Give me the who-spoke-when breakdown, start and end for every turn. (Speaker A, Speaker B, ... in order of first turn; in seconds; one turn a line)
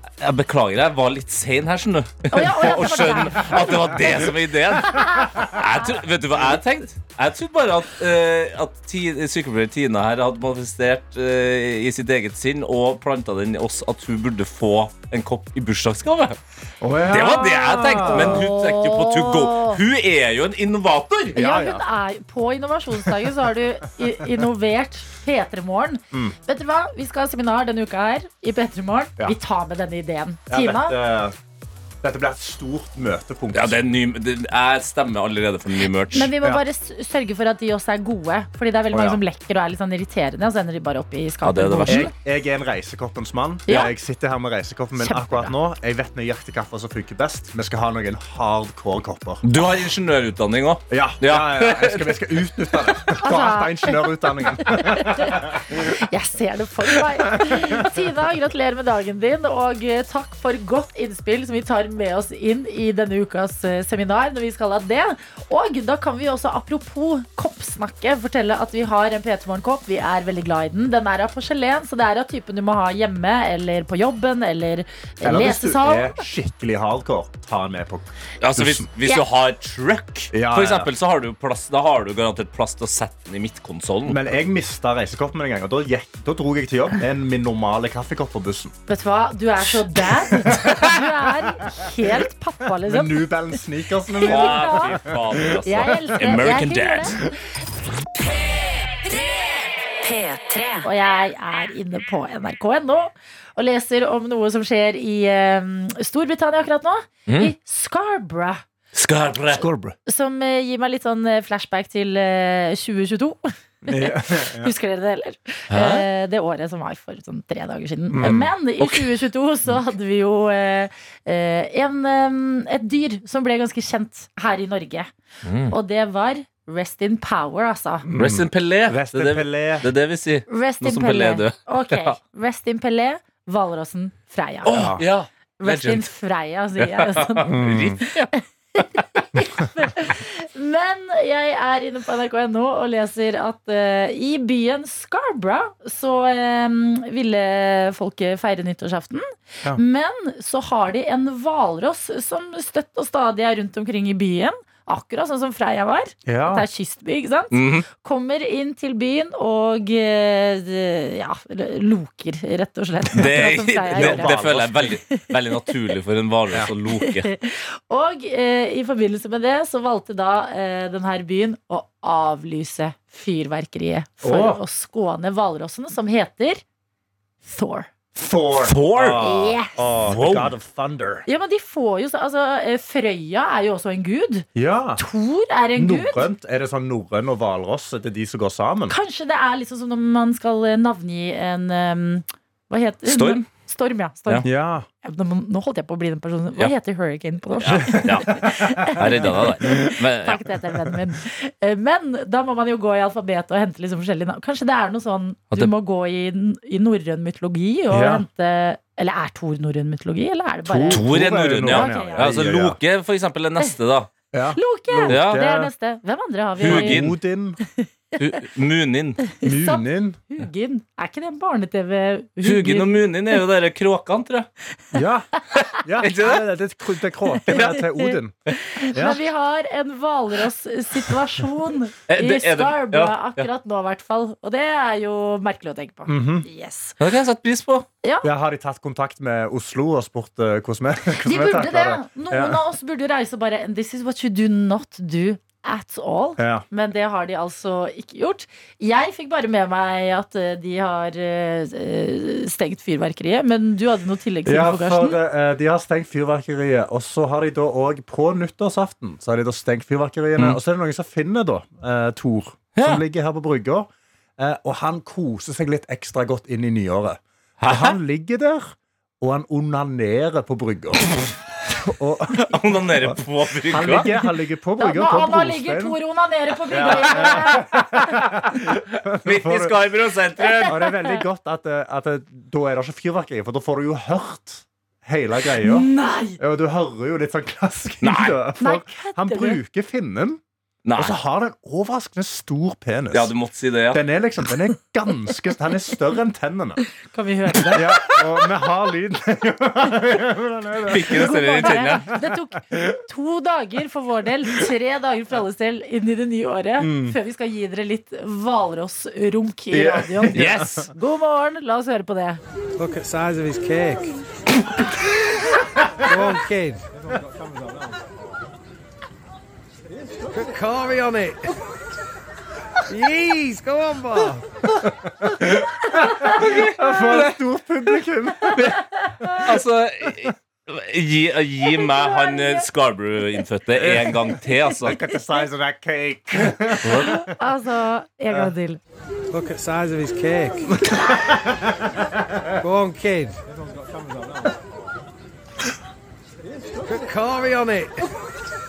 Speaker A: 0.2-16.4
Speaker B: 2.3-4.0
Speaker B: 4.8-5.5
Speaker C: 16.8-18.4
Speaker A: 17.1-21.4
Speaker B: 17.4-19.8
Speaker C: 21.3-21.8
Speaker B: 21.3-31.0
Speaker C: 30.5-31.4
Speaker C: 32.0-33.8
Speaker A: 33.5-36.3
Speaker B: 36.1-42.1
Speaker C: 38.9-39.2
Speaker A: 41.4-42.1
Speaker C: 41.9-49.4
Speaker B: 45.0-45.5
Speaker A: 49.4-52.7
Speaker C: 50.9-55.6
Speaker B: 53.2-76.2
Speaker C: 57.4-57.8
Speaker C: 75.2-78.9
Speaker A: 78.4-84.2
Speaker C: 80.3-80.9
Speaker C: 84.0-88.7
Speaker B: 88.9-93.3
Speaker C: 90.0-90.8
Speaker C: 91.8-92.1
Speaker C: 92.8-96.6
Speaker B: 94.1-95.0
Speaker A: 94.2-97.2
Speaker B: 95.6-97.2
Speaker D: 98.5-100.9
Speaker B: 100.8-108.6
Speaker A: 107.3-107.5
Speaker A: 108.9-109.7
Speaker C: 109.5-109.9
Speaker B: 110.0-125.1
Speaker C: 113.8-114.7
Speaker A: 115.7-116.0
Speaker C: 118.1-118.5
Speaker A: 118.2-119.1
Speaker A: 125.4-125.7
Speaker B: 125.7-128.1
Speaker C: 128.1-129.9
Speaker A: 128.2-132.1
Speaker B: 130.5-134.7
Speaker A: 134.6-136.1
Speaker C: 134.7-135.0
Speaker B: 135.6-137.6
Speaker A: 136.8-139.0
Speaker C: 137.5-138.0
Speaker B: 138.4-165.8
Speaker C: 156.2-156.6
Speaker A: 157.5-157.9
Speaker A: 163.1-167.3
Speaker C: 163.2-164.9
Speaker B: 166.9-176.6
Speaker C: 174.2-174.6
Speaker B: 177.4-177.9
Speaker C: 178.1-181.2
Speaker A: 178.6-179.2
Speaker B: 179.2-179.7
Speaker A: 180.1-180.5
Speaker B: 181.3-184.5
Speaker C: 184.5-185.0
Speaker B: 185.0-186.2
Speaker C: 185.7-188.9
Speaker B: 188.9-194.5
Speaker A: 193.1-193.4
Speaker C: 194.4-194.9
Speaker B: 195.0-211.1
Speaker A: 197.6-200.4
Speaker C: 198.0-199.9
Speaker C: 207.9-208.2
Speaker C: 210.6-212.8
Speaker A: 210.9-214.1
Speaker B: 211.7-212.3
Speaker C: 214.3-215.7
Speaker B: 214.6-217.0
Speaker A: 215.1-215.4
Speaker A: 216.6-217.1
Speaker C: 216.6-217.6
Speaker A: 218.2-219.2
Speaker B: 219.3-223.1
Speaker C: 219.4-220.2
Speaker A: 222.4-224.5
Speaker C: 224.9-228.3
Speaker A: 225.5-226.4
Speaker A: 227.5-227.8
Speaker B: 227.7-228.1
Speaker B: 228.7-237.0
Speaker C: 228.9-229.2
Speaker A: 232.1-233.5
Speaker C: 236.1-236.4
Speaker A: 237.0-237.8
Speaker B: 238.0-238.3
Speaker C: 238.2-242.6
Speaker B: 241.2-255.2
Speaker C: 246.4-246.6
Speaker C: 254.4-276.0
Speaker A: 262.8-263.0
Speaker A: 267.6-268.0
Speaker A: 272.4-274.1
Speaker B: 274.8-278.3
Speaker C: 276.7-279.8
Speaker A: 279.1-280.8
Speaker B: 280.4-281.2
Speaker C: 280.6-290.4
Speaker B: 285.6-286.4
Speaker A: 288.0-288.4
Speaker B: 288.6-289.6
Speaker A: 290.8-291.2
Speaker C: 290.9-293.3
Speaker A: 293.1-294.0
Speaker C: 293.9-296.8
Speaker B: 297.1-298.2
Speaker C: 297.7-302.1
Speaker A: 300.9-302.1
Speaker B: 301.1-312.4
Speaker C: 302.7-303.0
Speaker C: 306.8-307.2
Speaker C: 309.7-310.9
Speaker A: 310.3-310.9
Speaker E: 312.8-314.1
Speaker E: 316.0-316.8
Speaker E: 320.4-321.5
Speaker E: 322.9-324.4
Speaker C: 324.8-329.6
Speaker B: 326.1-326.4
Speaker A: 326.4-327.3
Speaker A: 329.4-335.0
Speaker B: 331.7-332.6
Speaker C: 333.8-334.2
Speaker C: 334.8-337.3
Speaker A: 336.8-337.1
Speaker B: 337.0-338.8
Speaker E: 339.3-340.8
Speaker C: 340.8-341.8
Speaker E: 342.6-343.4
Speaker E: 346.9-348.1